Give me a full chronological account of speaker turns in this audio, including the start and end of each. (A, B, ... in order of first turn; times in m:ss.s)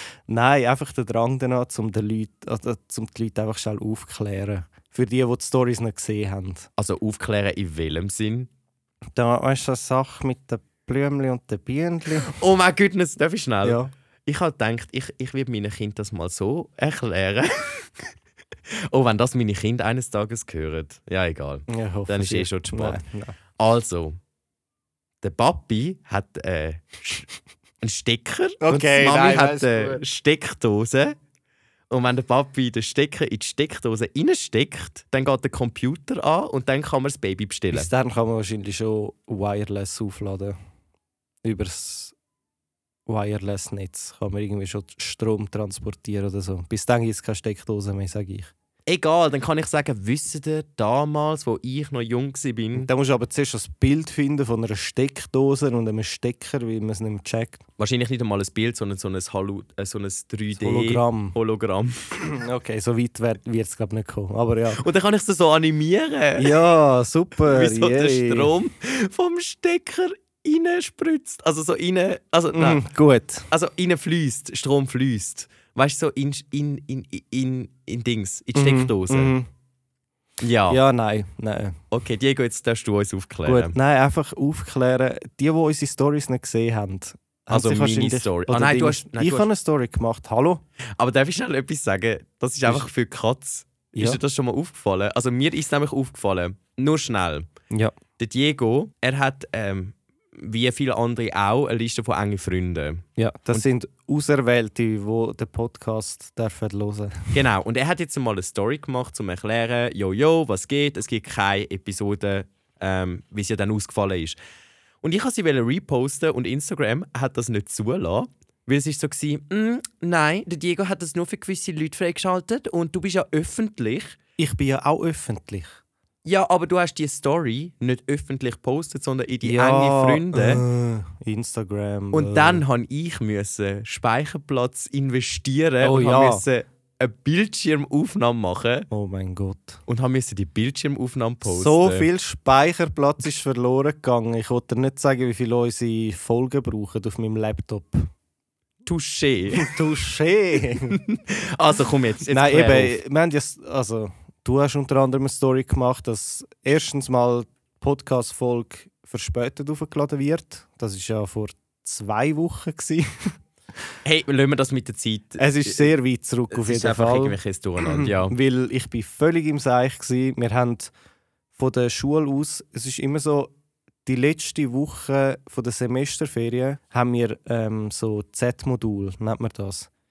0:00.3-0:06.7 A
0:06.8-0:08.5 B
0:09.2-0:12.4 A
0:12.2-0:18.0 B
0:13.6-0:13.9 A
0:18.7-0:23.0 B
0:21.7-0:23.4 A
0:23.6-0:24.2 B
0:25.2-0:27.3 B
0:27.8-0:31.2 B
0:28.6-0:30.0 A
0:31.9-0:37.9 B
0:37.7-0:40.6 A
0:41.4-0:42.2 A
0:43.1-0:48.5 A
0:48.9-0:52.9 B
0:52.7-0:57.6 A
0:57.8-1:02.0 B
1:00.6-1:01.4 A
1:02.2-1:04.8 A
1:04.7-1:06.6 B
1:06.4-1:08.5 A
1:07.4-1:12.8 B
1:12.5-1:13.5 A
1:13.5-1:19.3 B
1:18.5-1:19.5 A
1:20.4-1:20.8 B
1:20.7-1:21.8 A
1:21.9-1:23.8 B
1:23.5-1:30.6 A
1:27.5-1:29.5 B
1:31.0-1:37.5 B
1:33.9-1:34.2 A
1:38.2-1:43.6 B
1:43.2-1:47.4 A
1:47.3-1:54.4 B
1:55.0-2:04.2 B
2:04.4-2:05.8 A
2:06.2-2:10.6 B
2:09.4-2:12.6 A
2:12.1-2:18.9 B
2:15.8-2:16.4 A
2:18.9-2:19.8 A
2:19.9-2:22.1 B
2:21.4-2:28.0 A
2:28.9-2:29.8 B
2:29.6-2:31.0 A
2:30.8-2:33.0 B
2:32.3-2:43.1 A
2:44.0-2:45.9 B
2:45.4-2:50.9 A
2:46.5-2:48.4 B
2:51.6-2:53.5 A
2:54.1-2:59.9 A